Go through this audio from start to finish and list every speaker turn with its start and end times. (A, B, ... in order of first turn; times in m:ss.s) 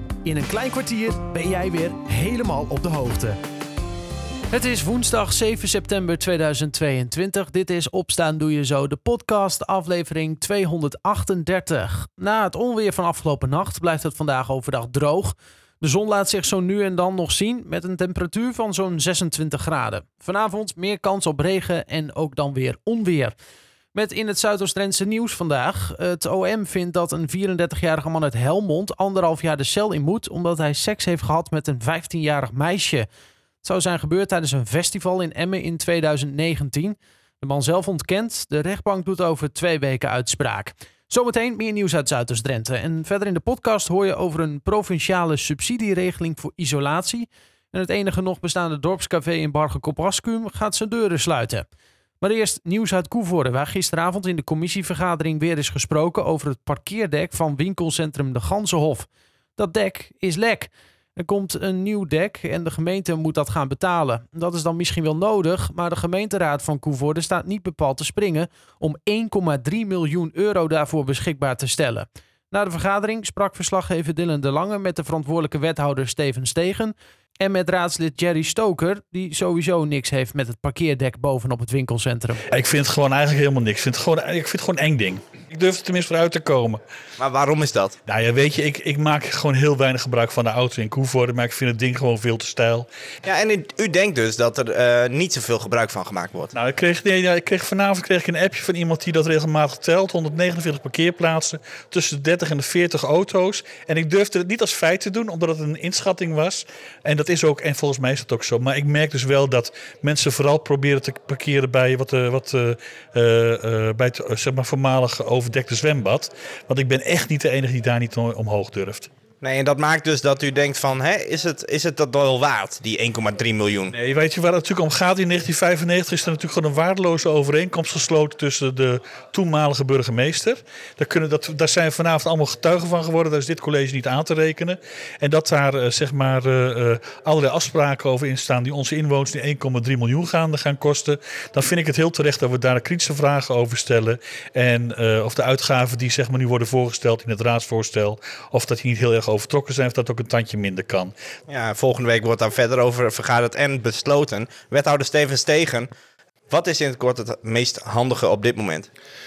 0:00.2-0:03.4 A
0:04.5-0:23.4 A
0:23.9-0:33.1 A
0:33.6-0:51.7 A
0:52.2-1:22.4 A
1:22.5-1:26.8 B
1:27.2-1:28.0 C
1:28.1-1:32.9 B
1:33.2-1:36.5 C
1:36.5-1:59.1 B
1:59.4-2:03.9 C
2:03.9-2:31.1 B
2:31.5-2:35.9 C
2:36.5-2:38.9 C